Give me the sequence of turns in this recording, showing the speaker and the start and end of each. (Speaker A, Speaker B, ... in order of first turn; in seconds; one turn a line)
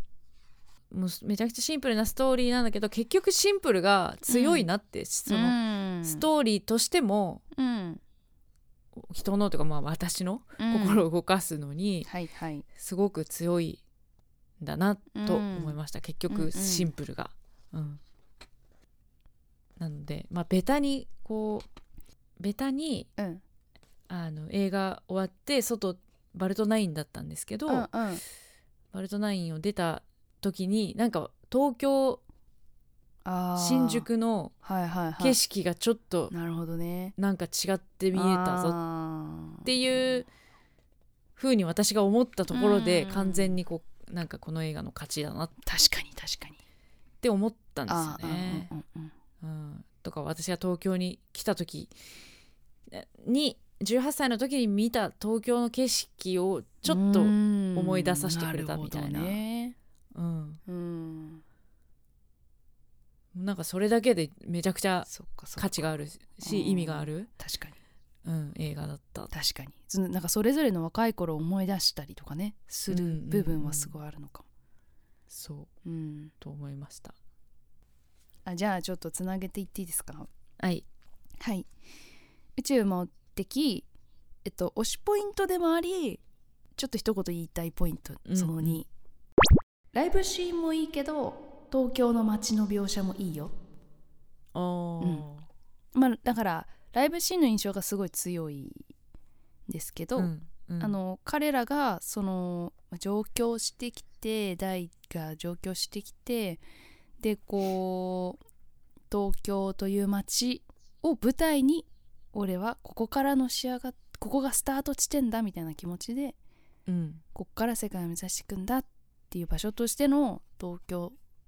Speaker A: 0.9-7.4
Speaker B: 4.3-4.7
Speaker B: 5.3-6.3
Speaker B: 7.5-8.0
Speaker A: 8.9-12.1
Speaker B: 10.6-11.0
Speaker B: 12.1-12.7
Speaker A: 12.8-13.8
Speaker A: 14.6-18.0
Speaker B: 15.1-15.8
Speaker B: 16.3-16.9
Speaker A: 19.8-21.7
Speaker A: 22.4-23.1
Speaker B: 23.2-23.4
Speaker A: 24.1-27.9
Speaker B: 27.7-28.2
Speaker A: 28.9-32.2
Speaker B: 33.2-34.1
Speaker A: 33.6-34.5
Speaker B: 34.6-35.4
Speaker A: 35.2-36.3
Speaker B: 36.3-37.1
Speaker A: 37.2-38.8
Speaker B: 38.1-39.7
Speaker A: 39.6-40.3
Speaker A: 41.4-45.6
Speaker B: 42.5-43.6
Speaker B: 45.6-46.6
Speaker A: 47.2-48.7
Speaker B: 47.9-49.1
Speaker A: 49.4-51.9
Speaker A: 52.9-59.4
Speaker B: 56.9-59.8
Speaker A: 60.1-60.6
Speaker B: 60.7-61.4
Speaker A: 63.3-67.3
Speaker B: 65.1-65.9
Speaker B: 66.4-67.8
Speaker A: 68.2-69.3
Speaker B: 69.3-74.5
Speaker A: 72.9-74.0
Speaker A: 75.3-75.7
Speaker B: 75.8-76.3
Speaker A: 76.4-77.2
Speaker B: 78.5-80.3
Speaker A: 80.6-80.8
Speaker B: 81.4-81.7
Speaker B: 82.6-83.9
Speaker B: 84.5-86.2
Speaker B: 86.8-88.9
Speaker A: 88.3-88.8
Speaker B: 89.9-93.5
Speaker A: 94.5-95.5
Speaker B: 95.0-95.3
Speaker B: 96.0-98.9
Speaker B: 99.7-106.6
Speaker A: 100.2-101.0
Speaker B: 107.2-108.4
Speaker B: 109.1-116.4
Speaker A: 116.9-117.2
Speaker B: 117.3-121.2